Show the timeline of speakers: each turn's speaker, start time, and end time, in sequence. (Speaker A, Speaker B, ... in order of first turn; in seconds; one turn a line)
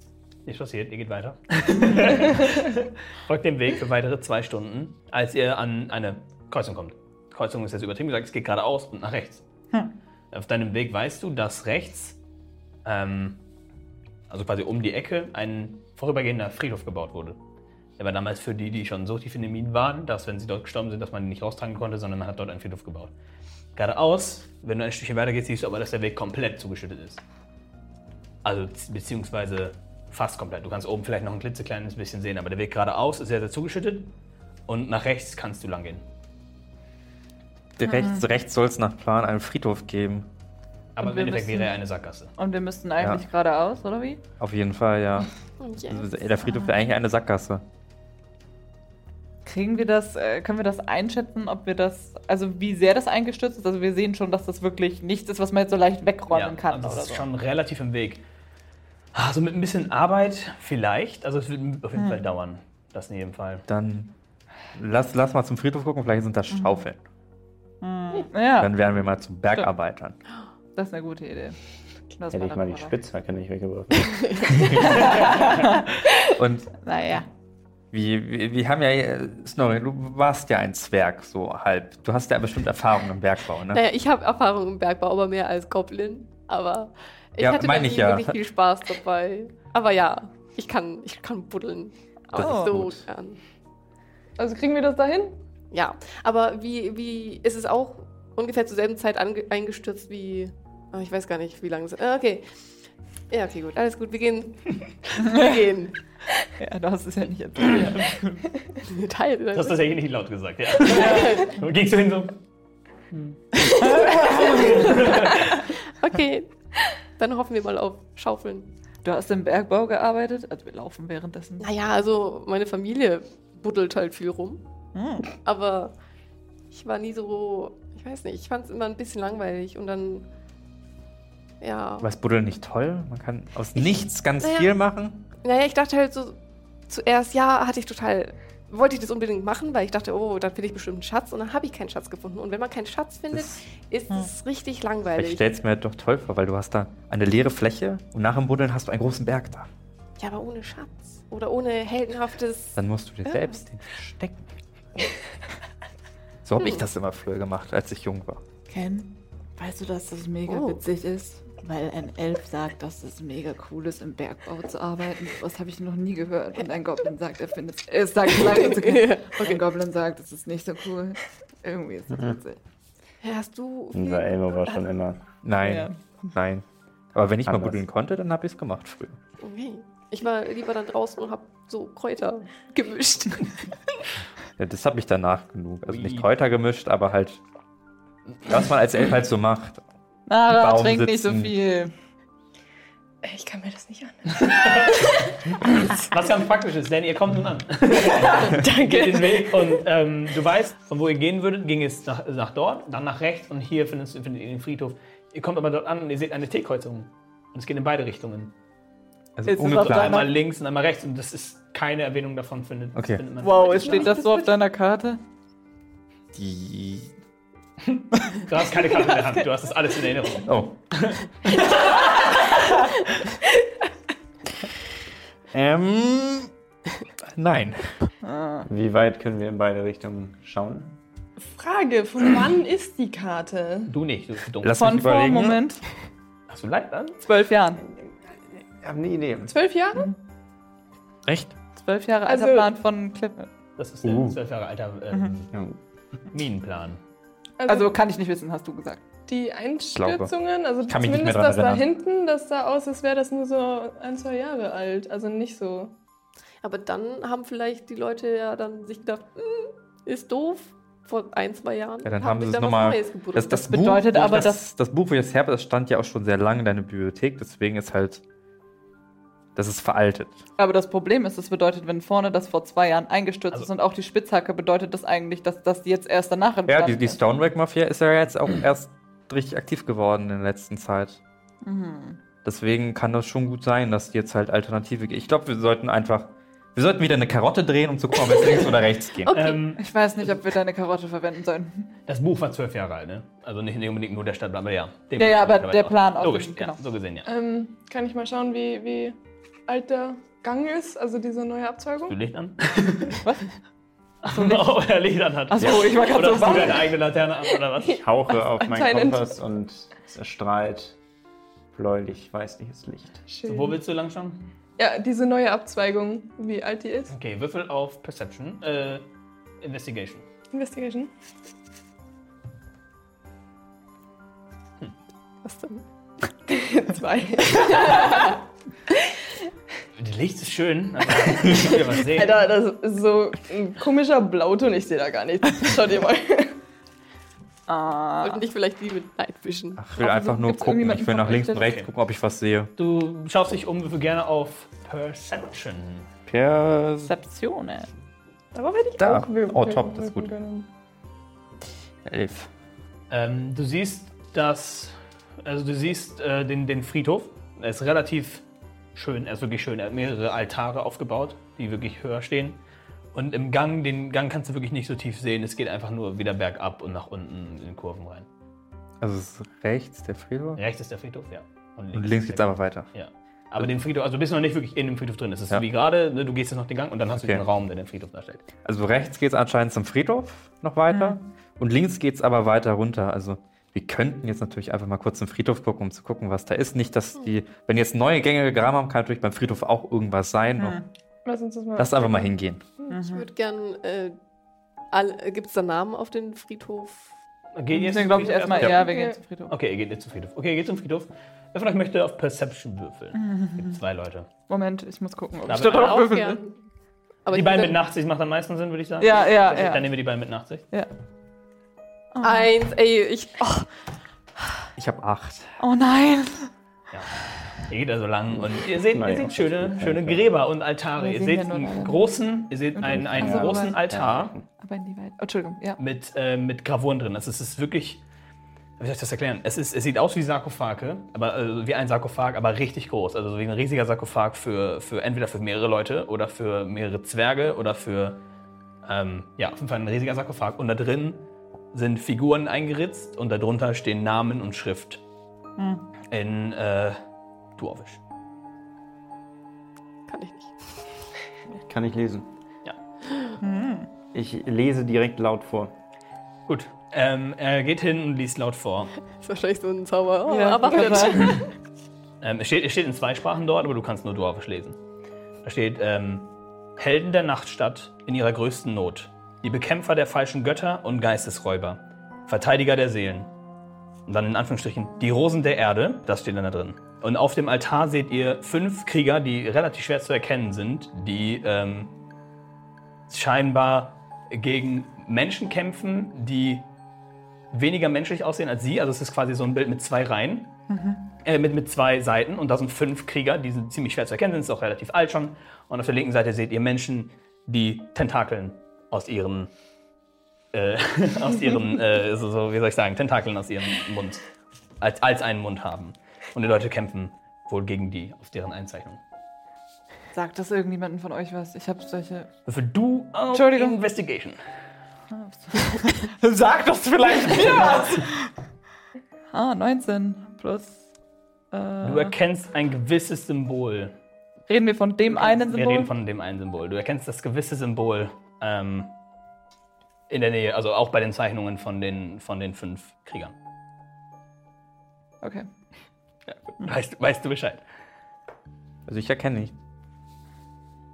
Speaker A: 0.5-9.4
Speaker A: 10.3-12.2
Speaker A: 12.8-13.4
Speaker A: 14.3-17.4
Speaker A: 18.0-23.1
Speaker A: 23.8-27.2
Speaker A: 28.4-34.1
Speaker A: 34.7-36.0
Speaker B: 37.8-40.3
Speaker C: 37.8-38.2
Speaker A: 41.0-42.3
Speaker C: 41.0-41.8
Speaker C: 42.4-44.2
Speaker B: 44.4-45.3
Speaker D: 45.6-46.2
Speaker B: 45.9-47.6
Speaker C: 49.5-57.3
Speaker A: 56.3-58.2
Speaker A: 59.1-63.7
Speaker B: 63.7-64.1
Speaker B: 64.7-67.0
Speaker C: 66.5-66.8
Speaker C: 67.8-68.8
Speaker B: 68.6-70.2
Speaker C: 70.8-71.6
Speaker C: 72.1-73.0
Speaker E: 72.3-74.7
Speaker D: 74.2-75.2
Speaker C: 75.1-75.8
Speaker B: 76.2-76.8
Speaker C: 76.8-77.3
Speaker B: 77.9-83.8
Speaker D: 83.7-93.4
Speaker B: 87.4-88.4
Speaker C: 92.3-92.7
Speaker B: 92.4-93.0
Speaker F: 94.4-95.4
Speaker D: 95.7-102.7
Speaker D: 103.3-106.0
Speaker C: 106.6-108.4
Speaker D: 108.8-109.9
Speaker A: 109.5-112.4
Speaker D: 110.9-111.5
Speaker C: 111.0-111.3
Speaker A: 113.1-113.4
Speaker C: 113.8-114.6
Speaker A: 114.0-115.6
Speaker D: 114.2-116.5
Speaker D: 117.2-118.7
Speaker C: 119.0-121.7
Speaker D: 121.6-124.6
Speaker C: 124.9-125.3
Speaker D: 125.4-125.9
Speaker D: 126.7-130.3
Speaker D: 131.6-132.1
Speaker B: 132.0-135.2
Speaker D: 134.4-134.7
Speaker D: 135.4-145.4
Speaker B: 143.3-143.6
Speaker B: 145.2-149.7
Speaker D: 150.2-153.6
Speaker B: 152.8-154.4
Speaker B: 156.4-158.4
Speaker D: 156.6-156.8
Speaker C: 158.7-172.6
Speaker D: 160.5-160.8
Speaker D: 168.4-169.6
Speaker D: 173.2-174.8
Speaker E: 173.9-175.2
Speaker B: 175.4-179.2
Speaker C: 175.6-176.0
Speaker E: 177.5-177.8
Speaker D: 179.4-183.7
Speaker B: 184.6-187.4
Speaker A: 185.9-186.3
Speaker B: 188.4-189.8
Speaker C: 190.3-191.9
Speaker B: 190.5-191.5
Speaker F: 193.2-195.3
Speaker A: 194.3-208.6
Speaker F: 198.1-199.7
Speaker B: 209.4-210.2
Speaker C: 209.5-210.3
Speaker A: 209.8-214.1
Speaker B: 213.0-213.2
Speaker C: 213.4-215.2
Speaker F: 213.6-214.5
Speaker B: 216.3-217.1
Speaker A: 217.9-222.5
Speaker B: 220.4-220.8
Speaker F: 222.1-222.4
Speaker B: 225.5-226.5
Speaker B: 227.2-227.9
Speaker C: 228.2-228.7
Speaker E: 228.7-231.0
Speaker F: 231.4-233.9
Speaker A: 233.9-234.9
Speaker B: 234.6-235.7
Speaker C: 234.8-235.8
Speaker A: 236.5-237.2
Speaker C: 237.2-237.8
Speaker E: 238.7-239.5
Speaker F: 239.5-240.1
Speaker B: 241.3-241.6
Speaker C: 241.8-243.5
Speaker F: 242.3-242.7
Speaker A: 243.8-245.5
Speaker B: 244.1-244.3
Speaker A: 246.3-247.0
Speaker F: 247.6-248.0
Speaker C: 247.7-249.0
Speaker F: 249.3-255.9
Speaker B: 250.0-250.3
Speaker B: 250.9-251.9
Speaker D: 256.6-263.6
Speaker B: 262.0-268.2
Speaker C: 263.5-264.6
Speaker B: 269.6-270.4
Speaker C: 270.6-277.2
Speaker B: 276.7-281.2
Speaker C: 281.6-282.2
Speaker B: 282.4-289.3
Speaker A: 289.3-289.8
Speaker C: 289.3-291.9
Speaker A: 292.1-297.3
Speaker C: 295.2-296.8
Speaker F: 297.2-299.2
Speaker F: 299.7-302.2
Speaker A: 302.1-303.3
Speaker A: 304.2-308.0
Speaker C: 304.3-304.8
Speaker C: 305.5-306.9
Speaker E: 305.6-305.9
Speaker E: 308.0-311.0
Speaker F: 308.3-309.4
Speaker E: 311.7-313.2
Speaker F: 313.3-313.8
Speaker A: 313.4-314.5
Speaker F: 314.8-317.1
Speaker A: 317.1-319.1
Speaker A: 319.6-320.3
Speaker F: 320.5-321.1
Speaker D: 325.4-325.8
Speaker F: 326.5-328.4
Speaker D: 328.0-328.3
Speaker A: 330.0-332.4
Speaker F: 332.0-336.6
Speaker C: 337.7-338.4
Speaker D: 338.2-339.8
Speaker B: 339.8-342.7
Speaker C: 340.0-341.7
Speaker A: 341.4-341.9
Speaker A: 342.8-346.1
Speaker B: 346.3-347.1
Speaker C: 347.1-347.9
Speaker F: 348.5-350.7
Speaker B: 349.0-350.3
Speaker B: 352.1-352.5
Speaker A: 353.1-358.4
Speaker A: 358.9-362.6
Speaker A: 363.1-368.3
Speaker B: 369.0-370.6
Speaker A: 370.6-378.5
Speaker B: 371.9-372.9
Speaker B: 377.1-377.4
Speaker B: 378.6-390.8
Speaker C: 380.9-381.2
Speaker C: 390.6-390.9
Speaker F: 391.3-392.9
Speaker B: 391.8-392.6
Speaker C: 392.9-393.3
Speaker D: 393.1-394.2
Speaker D: 394.9-397.1
Speaker A: 397.6-398.8
Speaker C: 397.7-399.5
Speaker F: 398.7-399.2
Speaker A: 399.5-404.3
Speaker C: 403.1-403.8
Speaker C: 404.5-406.4
Speaker A: 405.5-406.1
Speaker D: 405.5-406.6
Speaker D: 407.2-407.8
Speaker A: 407.3-410.6
Speaker C: 409.0-409.9
Speaker C: 412.1-412.5
Speaker D: 412.2-413.6
Speaker B: 414.8-415.6
Speaker C: 415.6-416.5
Speaker A: 416.9-424.3
Speaker E: 418.3-420.3
Speaker C: 421.0-422.1
Speaker C: 422.8-423.8
Speaker E: 422.8-424.5
Speaker C: 424.6-425.8
Speaker A: 425.8-428.0
Speaker A: 428.8-438.2
Speaker A: 438.8-445.0
Speaker C: 445.6-445.9
Speaker A: 446.1-447.0
Speaker A: 447.6-448.0
Speaker D: 450.1-451.0
Speaker E: 451.6-452.3
Speaker C: 453.4-453.9
Speaker E: 454.1-455.7
Speaker A: 456.5-458.9
Speaker D: 459.1-461.5
Speaker C: 460.3-461.4
Speaker A: 461.1-461.4
Speaker A: 462.2-464.8
Speaker A: 465.4-473.3
Speaker A: 474.1-481.9
Speaker A: 483.1-486.7
Speaker A: 487.5-490.6
Speaker C: 490.7-491.0
Speaker A: 491.2-499.5
Speaker A: 500.5-504.2
Speaker A: 504.8-509.0
Speaker C: 510.1-512.3
Speaker A: 512.5-514.4
Speaker C: 513.3-513.8
Speaker C: 515.1-518.3
Speaker A: 517.4-517.9
Speaker C: 519.3-520.8
Speaker C: 521.5-522.1
Speaker A: 521.8-524.0
Speaker C: 524.5-525.9
Speaker A: 525.1-528.9
Speaker A: 530.1-533.4
Speaker C: 535.2-535.5
Speaker A: 536.3-537.6
Speaker B: 538.9-539.5